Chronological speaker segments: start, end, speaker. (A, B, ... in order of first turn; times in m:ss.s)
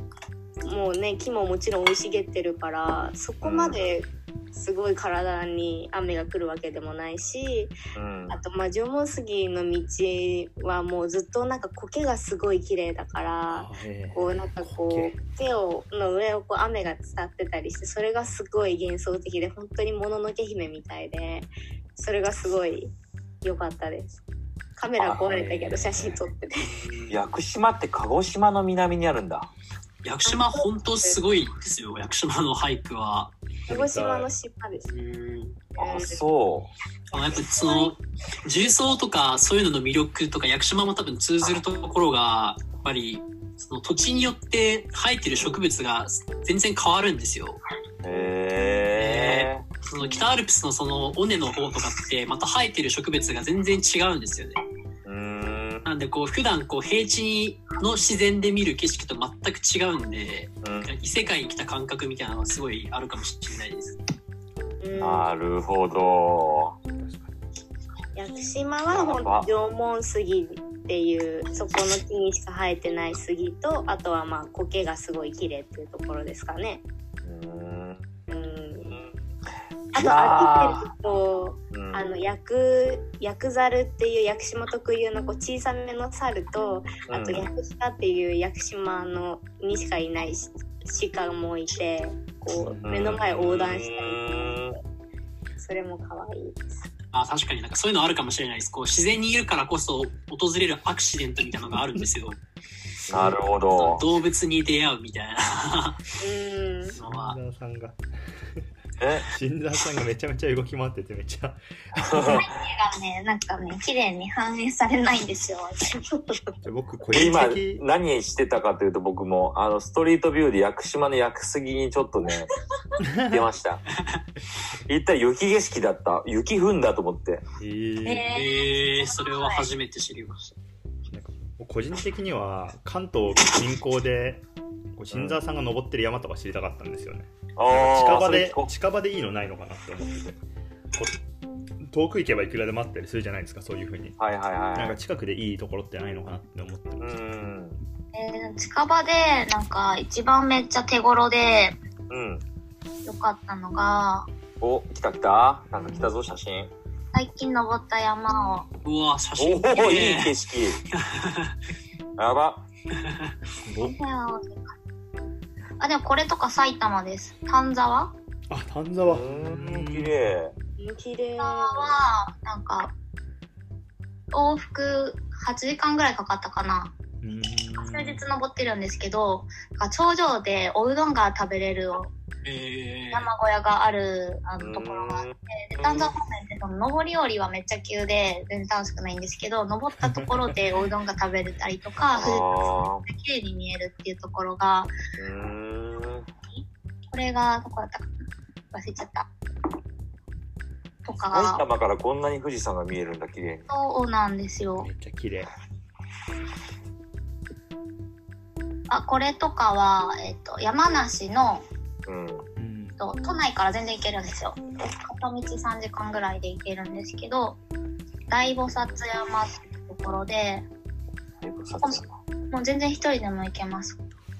0:00.6-0:07.8 A
0:03.4-0:03.8 B
0:08.0-0:08.4 B
0:08.3-0:24.2 A
0:13.5-0:15.2 C
0:24.8-0:26.9 A
0:25.0-0:25.3 B
0:25.3-0:26.2 C
0:26.6-0:27.2 D
0:27.1-0:29.5 B
0:30.0-0:33.3 D
0:30.2-0:31.2 A
0:33.7-0:34.3 C
0:33.7-0:34.9 A
0:34.9-0:35.6 D
0:35.8-0:36.2 A
0:35.8-0:36.7 B
0:37.1-0:47.6 D
0:45.4-0:45.6 B
0:48.0-0:49.7 B
0:48.9-0:54.6 D
0:55.0-0:55.9 B
0:55.8-1:04.0 D
1:00.6-1:00.9 B
1:04.8-1:05.3 A
1:05.0-1:06.8 B
1:06.9-1:07.3 C
1:08.2-1:16.8 A
1:08.9-1:09.5 B
1:17.2-1:18.0 B
1:18.3-1:19.0 A
1:18.8-1:19.1 B
1:19.9-1:34.5 A
1:19.9-1:20.9 B
1:21.7-1:22.1 B
1:27.1-1:27.5 B
1:32.5-1:33.2 C
1:32.8-1:34.8 B
1:35.6-1:36.9 A
1:37.1-1:42.4 D
1:43.1-1:44.0 B
1:43.2-1:46.1 D
1:46.2-1:47.0 A
1:46.9-1:48.0 C
1:47.0-1:47.4 D
1:49.0-1:49.3 B
1:49.2-1:52.4 C
1:52.0-1:52.5 B
1:52.3-1:56.0 E
1:56.1-1:56.5 A
1:56.6-1:57.8 C
1:57.1-2:02.5 B
2:03.0-2:03.4 C
2:03.3-2:03.8 B
2:04.9-2:07.4 B
2:07.6-2:08.3 C
2:08.0-2:09.7 E
2:08.3-2:10.6 D
2:11.1-2:14.4 C
2:15.0-2:20.4 C
2:15.1-2:15.4 B
2:17.6-2:18.7 B
2:21.8-2:24.2 C
2:24.2-2:25.0 B
2:24.8-2:27.1 C
2:27.0-2:27.8 B
2:28.1-2:31.8 E
2:32.1-2:32.4 B
2:33.1-2:34.3 E
2:34.6-2:36.7 B
2:35.8-2:36.1 C
2:37.1-2:38.7 E
2:38.8-2:40.3 D
2:39.4-2:40.8 B
2:40.9-2:41.6 D
2:42.2-2:42.6 B
2:43.0-2:43.3 D
2:43.7-2:44.0 C
2:43.8-2:44.8 E
2:45.8-2:48.1 E
2:48.5-2:50.2 C
2:49.0-2:50.5 B
2:50.8-2:52.0 A
2:51.4-2:52.9 E
2:54.3-2:56.9 E
2:57.2-2:58.2 C
2:57.8-3:02.1 E
3:02.4-3:03.3 D
3:03.1-3:12.5 E
3:04.6-3:05.4 B
3:10.0-3:10.6 C
3:12.1-3:13.0 B
3:13.0-3:14.9 E
3:15.2-3:16.3 B
3:16.5-3:18.1 E
3:18.7-3:19.3 E
3:21.0-3:21.6 E
3:21.3-3:23.7 B
3:23.7-3:24.9 E
3:24.8-3:25.5 C
3:28.9-3:31.6 E
3:32.1-3:32.5 B
3:32.6-3:33.0 C
3:33.0-3:37.6 E
3:38.3-3:40.7 E
3:41.4-3:42.2 B
3:41.8-3:44.0 E